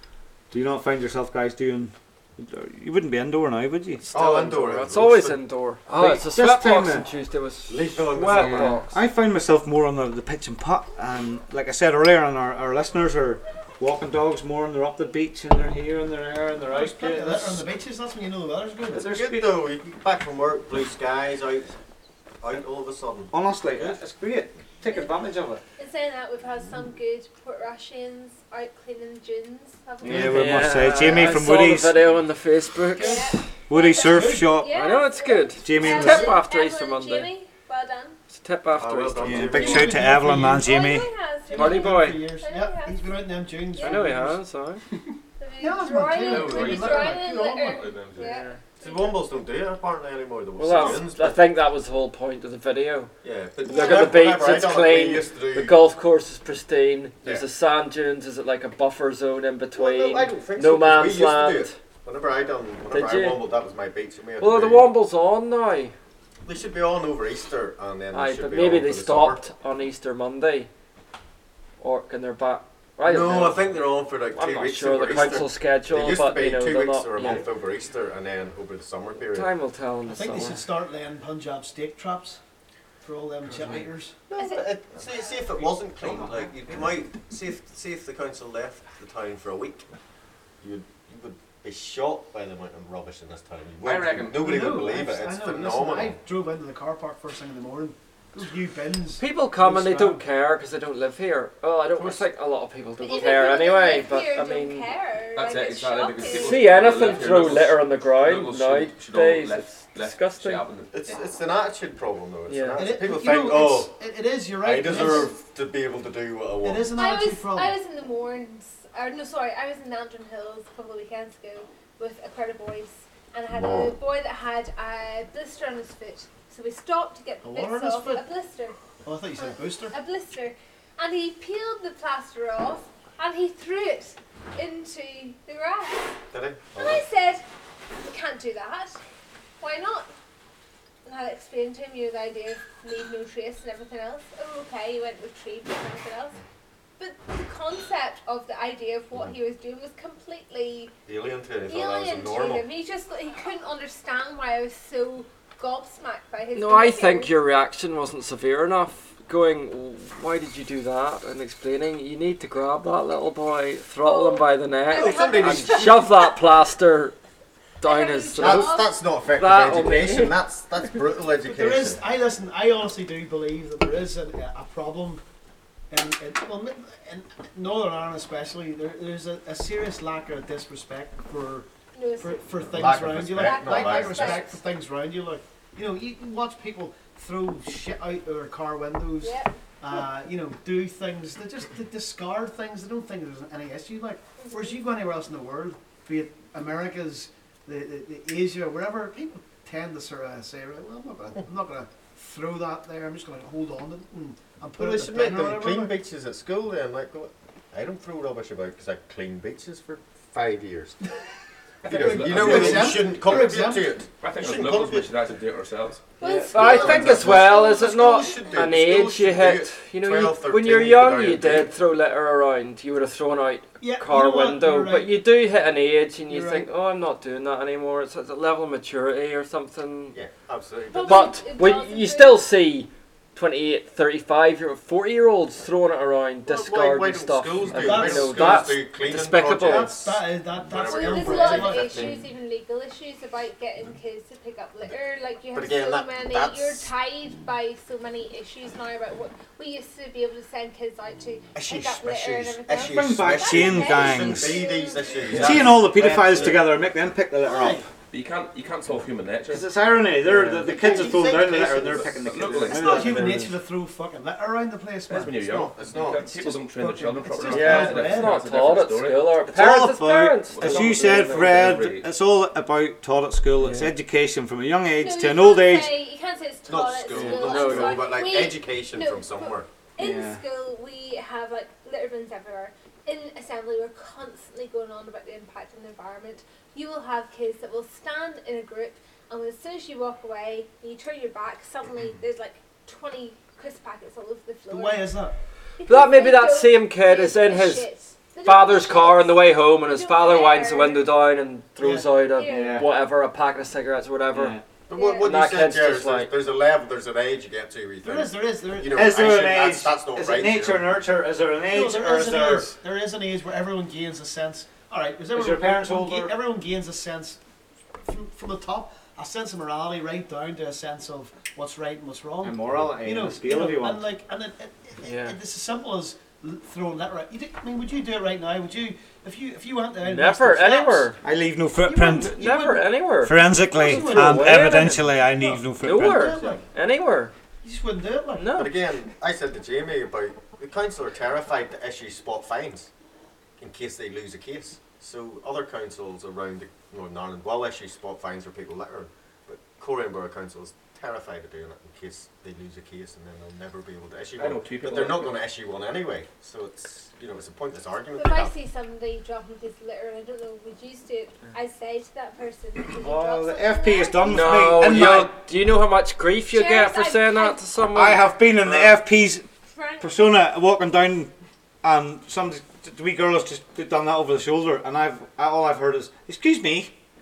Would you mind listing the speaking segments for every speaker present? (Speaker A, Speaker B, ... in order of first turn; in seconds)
Speaker A: 0.5-4.1, 6.0-7.0, 8.6-17.6, 18.9-19.6, 23.3-25.6, 30.0-32.1, 33.7-34.7, 35.6-36.4, 39.2-41.1, 252.8-254.6, 255.3-257.9, 259.5-263.6, 269.4-276.0, 280.0-280.4, 302.5-302.9, 304.3-304.6, 308.9-312.8, 315.3-316.4, 322.4-324.1, 331.2-332.6, 333.2-336.6, 362.9-365.3, 367.9-369.4, 370.0-371.3, 371.8-376.9
Speaker B: 4.1-5.4, 7.7-8.8, 18.9-21.7, 22.4-23.9, 38.8-40.0, 48.8-51.4, 53.2-55.8, 59.7-64.9, 66.4-69.4, 73.0-79.5, 84.3-89.9, 90.6-96.2, 110.9-113.9, 114.6-117.0, 136.3-137.1, 151.1-152.6, 164.9-166.1, 168.4-172.0, 182.6-184.5, 204.8-211.0, 211.9-215.3, 216.5-221.7, 230.1-231.5, 236.4-242.2, 245.5-246.9, 251.5-256.7, 265.5-266.4, 276.6-279.7, 304.9-310.9, 338.6-342.9, 343.6-358.5
Speaker C: 4.1-8.9, 30.0-33.5, 34.7-37.3, 38.3-39.4, 41.5-42.2, 43.8-44.8, 48.2-48.5, 50.6-53.1, 53.6-61.8, 62.9-63.4, 64.4-65.9, 68.1-70.7, 71.8-77.5, 79.3-80.6, 99.2-104.9, 106.2-110.7, 112.5-112.8, 156.5-167.1, 167.8-168.8, 169.4-170.4, 216.2-230.2, 231.0-239.9, 260.3-260.6, 267.5-271.7, 273.6-273.9, 277.2-278.0, 295.9-297.9, 298.4-304.5, 305.2-306.3, 325.0-325.4, 330.0-331.2, 332.1-335.1, 335.8-337.3, 338.3-338.7, 364.3-369.0
Speaker D: 16.7-19.1, 33.0-33.2, 34.0-34.5, 39.5-40.7, 41.5-44.4, 45.6-47.8, 80.1-82.4, 83.0-84.2, 94.3-100.2, 112.8-115.4, 116.6-117.7, 127.4-128.2, 129.0-129.9, 171.4-175.2, 175.9-181.7, 182.2-205.9, 211.9-213.9, 223.8-225.1, 226.3-226.7, 237.7-238.7, 239.6-242.1, 257.4-257.9, 260.3-265.7, 266.2-268.4, 294.7-295.3, 301.8-302.1, 308.0-309.1, 311.6-317.4, 318.1-331.2, 331.8-332.9, 333.7-336.6, 337.6-338.6
Speaker E: 24.9-25.1, 25.8-31.3, 33.0-38.2, 39.9-43.1, 43.7-44.1, 45.4-49.2, 50.7-51.0, 53.6-54.1, 84.3-85.3, 103.0-107.6, 116.9-128.8, 129.3-136.2, 136.7-137.4, 138.0-139.0, 139.6-140.1, 141.0-146.4, 147.0-150.9, 151.7-157.3, 164.0-166.1, 167.8-169.0, 181.9-184.6, 189.2-189.6, 194.4-194.8, 216.2-217.4, 230.9-232.5, 240.8-255.4, 275.0-295.1, 295.8-301.1, 302.3-302.9, 304.9-305.3, 358.1-365.1, 366.5-367.6, 369.7-370.4
Speaker F: 46.2-48.5, 93.8-94.4, 105.3-110.9, 211.8-213.5, 214.2-216.0, 258.1-259.7, 260.9-263.5, 265.1-269.4, 270.6-272.1, 354.4-355.4